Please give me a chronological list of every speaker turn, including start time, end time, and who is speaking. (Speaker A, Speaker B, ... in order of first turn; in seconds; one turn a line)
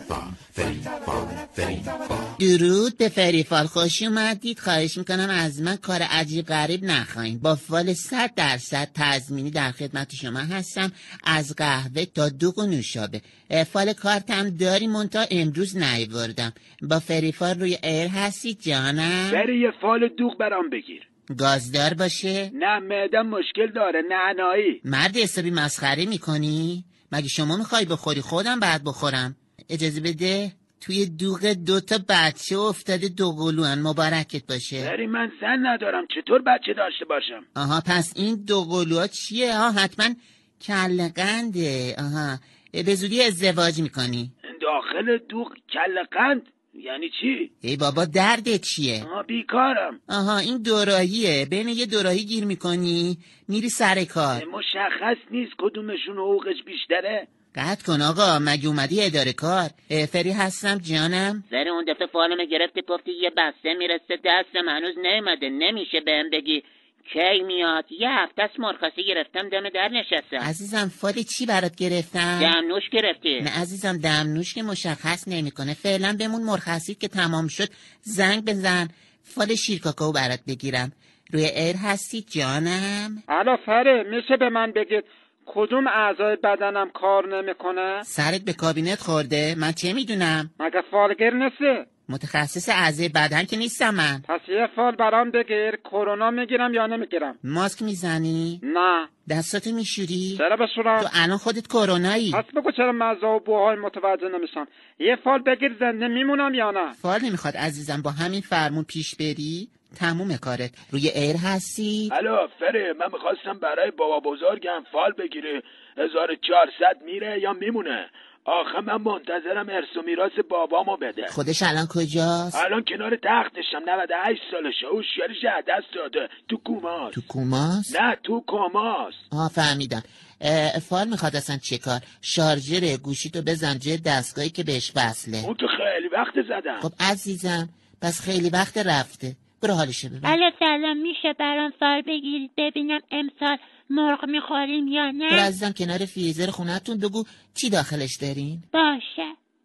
Speaker A: 2.4-19.5
Speaker B: 19.3-21.0
Speaker A: 21.3-22.5
Speaker B: 22.5-24.8
Speaker A: 24.8-34.9
Speaker B: 34.8-37.4
Speaker A: 37.5-44.3
Speaker B: 44.5-47.5
Speaker A: 47.6-49.1
Speaker B: 49.0-50.0
Speaker A: 50.1-54.5
Speaker B: 54.3-57.2
Speaker A: 57.5-61.4
Speaker C: 61.5-70.5
Speaker A: 70.4-72.5
Speaker C: 72.4-73.5
Speaker A: 73.4-83.2
Speaker D: 83.3-88.0
Speaker A: 88.0-90.5
Speaker D: 90.6-91.8
Speaker A: 92.1-94.2
Speaker D: 94.3-97.3
Speaker A: 97.4-98.6
Speaker D: 98.6-99.1
Speaker A: 99.3-100.4
Speaker D: 100.3-101.1
Speaker A: 101.0-102.4
Speaker D: 102.3-106.9
Speaker A: 107.0-112.1
Speaker B: 112.1-121.3
Speaker A: 121.3-122.6
Speaker B: 122.5-127.3
Speaker B: 127.8-129.2
Speaker A: 129.3-135.5
Speaker B: 135.4-136.9
Speaker A: 136.8-140.4
Speaker E: 140.2-145.5
Speaker A: 145.8-148.2
Speaker E: 148.7-149.3